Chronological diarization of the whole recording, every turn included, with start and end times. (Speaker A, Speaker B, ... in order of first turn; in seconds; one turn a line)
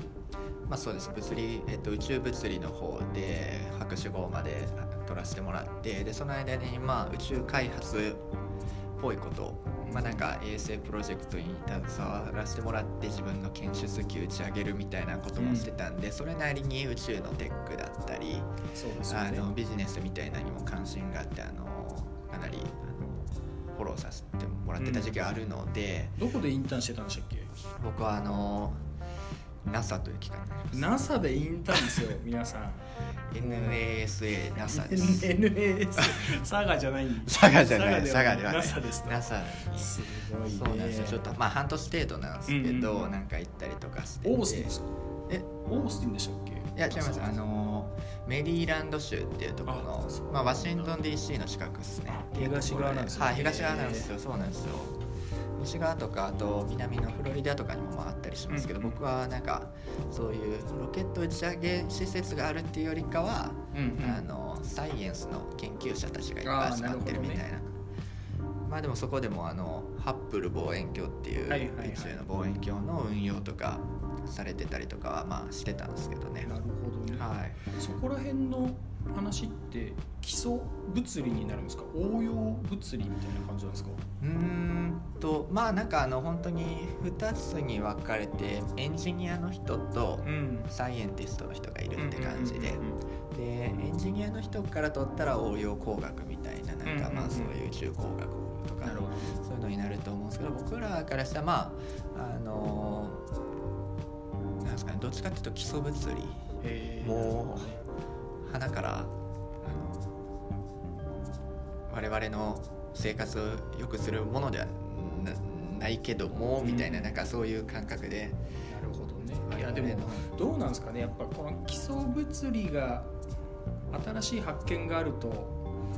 Speaker A: 0.7-8.2
Speaker A: 9.0-18.5
Speaker B: 9.8-10.3
Speaker B: 15.4-15.7
Speaker B: 18.7-19.5
Speaker A: 19.1-26.1
Speaker B: 24.8-25.2
Speaker B: 26.2-27.5
Speaker A: 27.8-28.8
Speaker A: 29.6-30.9
Speaker B: 30.7-32.9
Speaker A: 33.3-35.3
Speaker B: 33.4-33.8
Speaker B: 34.7-41.3
Speaker A: 36.0-36.3
Speaker A: 37.2-44.7
Speaker B: 42.5-43.1
Speaker B: 44.2-44.9
Speaker B: 45.5-47.4
Speaker A: 46.8-55.0
Speaker B: 49.7-51.0
Speaker B: 52.1-54.1
Speaker A: 55.6-67.7
Speaker B: 58.5-59.0
Speaker B: 63.7-64.2
Speaker B: 66.4-67.4
Speaker A: 68.7-76.5
Speaker B: 71.5-72.2
Speaker B: 76.5-84.0
Speaker A: 77.1-77.6
Speaker A: 84.2-103.2
Speaker B: 90.2-90.7
Speaker B: 92.0-93.0
Speaker B: 96.8-97.5
Speaker B: 98.8-99.4
Speaker A: 104.6-106.4
Speaker B: 106.6-107.8
Speaker A: 107.0-107.8
Speaker A: 108.4-110.1
Speaker A: 111.9-118.4
Speaker B: 116.6-117.1
Speaker B: 118.7-123.1
Speaker A: 119.5-120.3
Speaker B: 123.9-125.6